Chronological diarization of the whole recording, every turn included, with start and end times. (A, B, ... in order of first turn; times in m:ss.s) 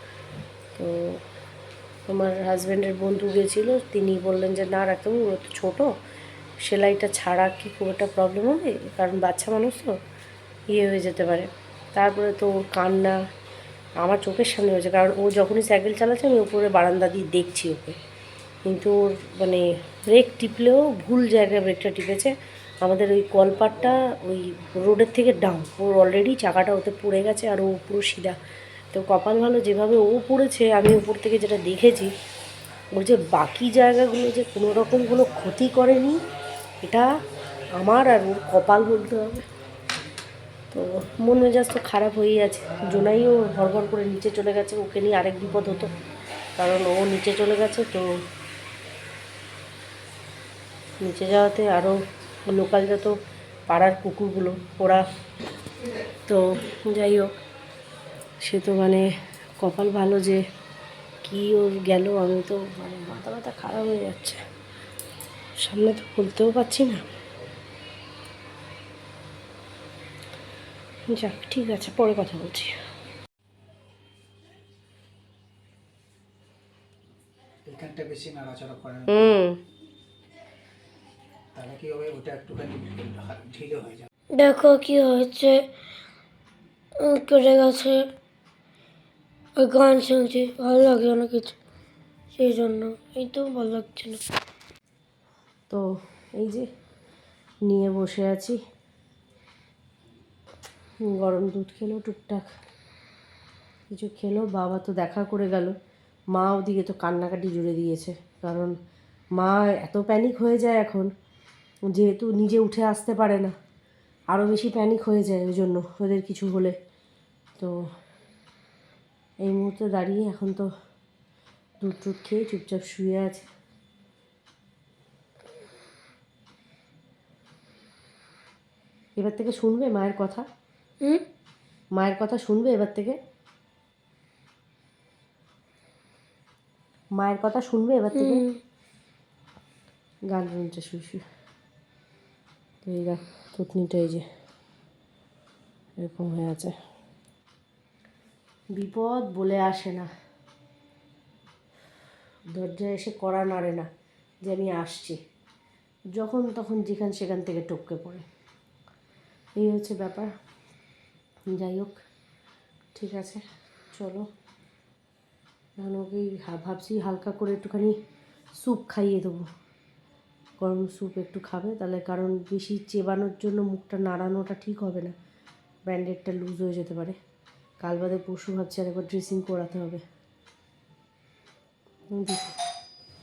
0:00.8-0:01.2 A
0:02.1-0:05.9 A
0:06.6-0:10.0 A
0:10.7-0:13.2 A
0:14.0-0:18.0 A
0:18.6-0:28.4 A
0:28.9-0:32.1 A
0:32.9-0:36.2 A
0:36.8-0:37.1 A
0:37.8-0:39.4 A
0:40.7-0:45.9 A
0:46.6-0:48.1 A
0:51.0-0:53.2 A
0:53.7-0:55.0 A
0:56.3-0:57.4 A
0:58.4-1:00.4 A
1:01.2-1:04.4 A
1:05.6-1:07.0 A
1:11.1-1:12.7 A
1:17.6-1:19.1 B
1:19.1-1:19.6 A
1:21.6-1:24.1 B
1:24.4-1:25.6 C
1:27.0-1:28.1 C
1:29.6-1:31.6 C
1:32.4-1:34.2 C
1:36.4-1:36.7 A
1:37.7-1:38.6 A
1:41.0-1:42.4 A
1:43.9-1:45.8 A
1:46.3-1:48.7 A
1:49.4-1:51.1 A
1:51.9-1:53.5 A
1:54.3-1:56.8 A
1:59.4-2:00.7 A
2:01.8-2:03.4 A
2:09.2-2:10.5 A
2:12.0-2:13.2 A
2:17.2-2:18.4 A
2:18.1-2:18.6 C
2:20.3-2:21.2 A
2:22.8-2:24.3 A
2:26.0-2:26.8 A
2:28.8-2:30.1 A
2:32.5-2:33.9 A
2:34.4-2:35.2 A
2:36.2-2:38.2 A
2:39.6-2:40.3 A
2:41.5-2:42.0 A
2:43.0-2:43.4 A
2:43.9-2:44.3 A
2:45.8-2:48.0 A
2:48.6-2:49.5 A
2:50.6-2:55.2 A
2:55.9-2:57.2 A
2:57.8-3:00.0 A
3:02.1-3:02.5 A